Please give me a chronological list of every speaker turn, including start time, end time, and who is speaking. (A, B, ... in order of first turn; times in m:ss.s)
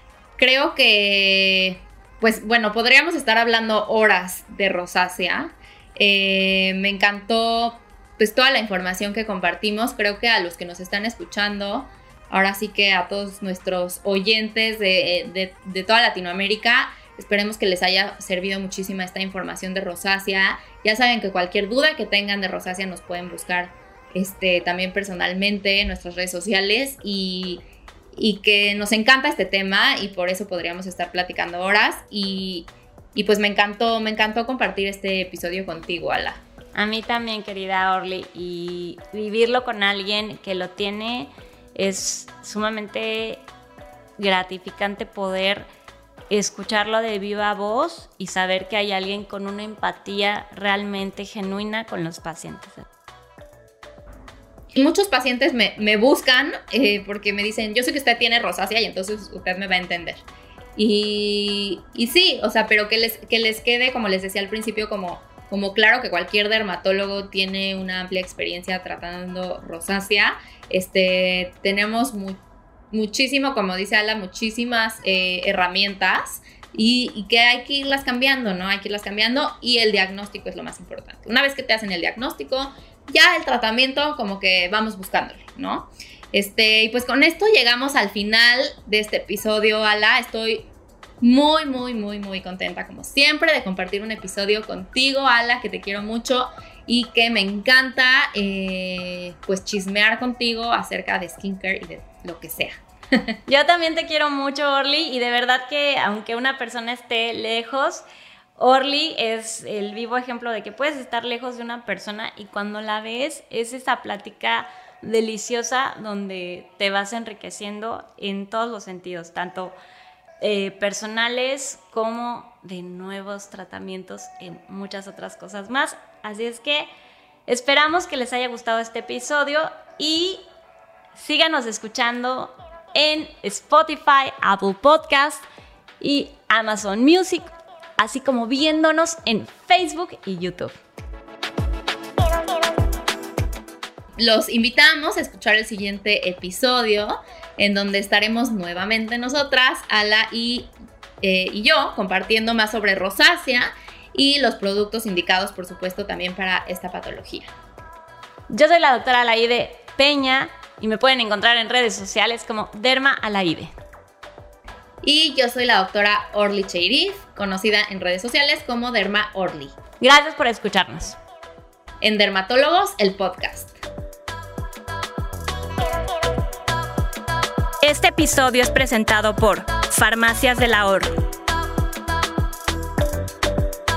0:00.4-0:27.6 A
0:28.1-0:36.4 A
0:36.7-0:43.4 B
0:44.2-0:45.7 B
0:46.3-0:52.9 B
0:54.7-1:00.2 A
1:00.8-1:30.7 A
1:31.2-1:43.3 A
1:43.5-1:48.0 B
1:48.6-1:59.8 B
2:00.4-2:06.9 B
2:07.5-2:10.5 B
2:11.1-2:15.4 B
2:16.0-2:20.7 B
2:24.2-2:37.5 A
2:38.5-2:43.7 B
2:45.0-2:49.8 A
2:50.0-2:51.2 B
2:52.0-2:53.8 A
2:57.8-3:01.2 B